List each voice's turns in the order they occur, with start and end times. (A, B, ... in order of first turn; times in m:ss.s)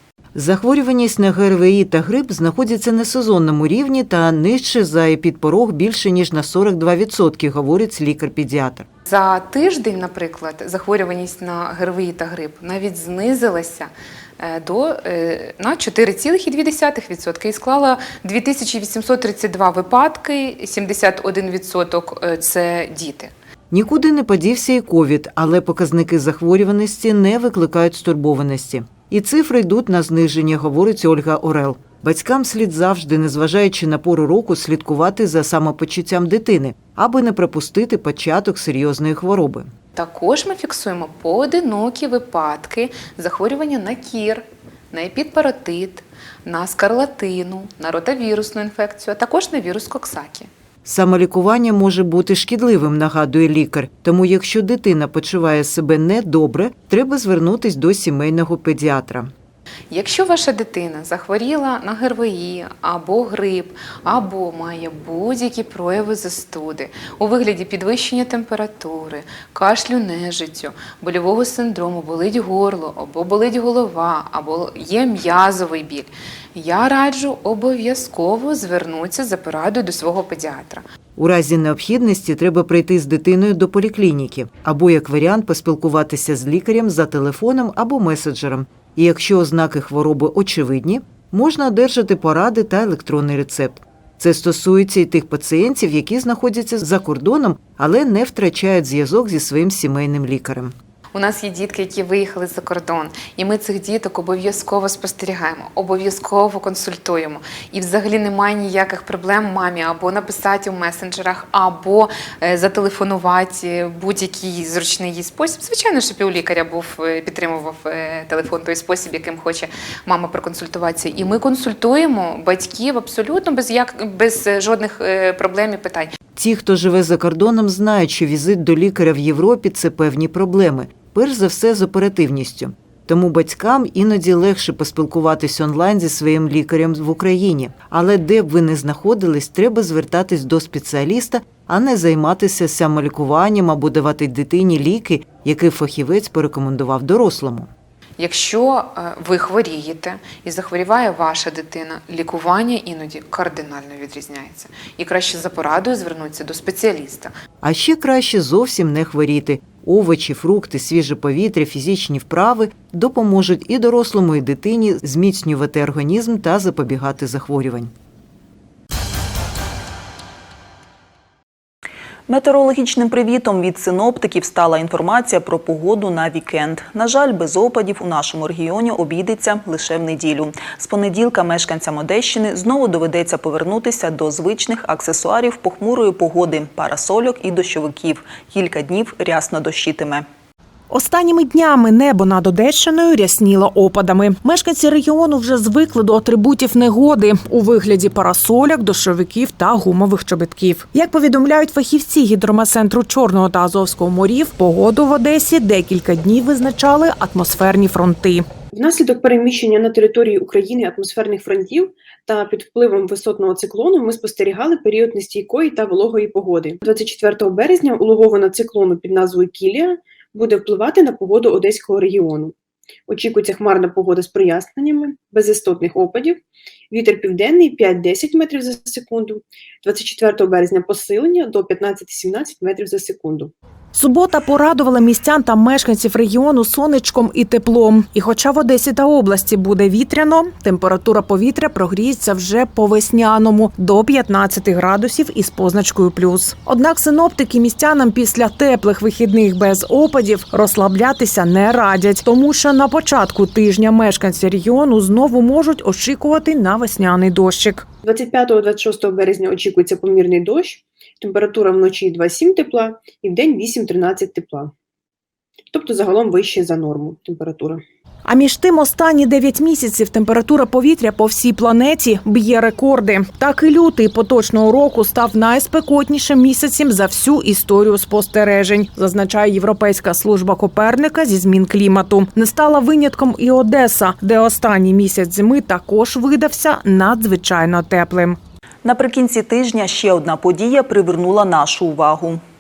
0:00.4-0:08.9 A
0:09.1-0:23.3 B
0:23.7-0:39.7 A
0:40.0-0:50.5 B
0:50.8-0:59.3 A
0:59.9-1:20.8 B
1:21.2-1:40.7 A
1:41.1-2:06.1 B
2:06.4-2:27.7 A
2:28.2-2:37.3 B
2:37.6-2:47.9 A
2:52.3-3:10.2 C
3:10.9-3:28.4 D
3:28.7-3:42.6 E
3:43.1-3:53.5 E
3:53.9-4:17.8 D
4:18.0-4:24.7 E
4:25.7-4:27.8 E
4:28.3-4:48.4 D
4:48.8-4:52.4 C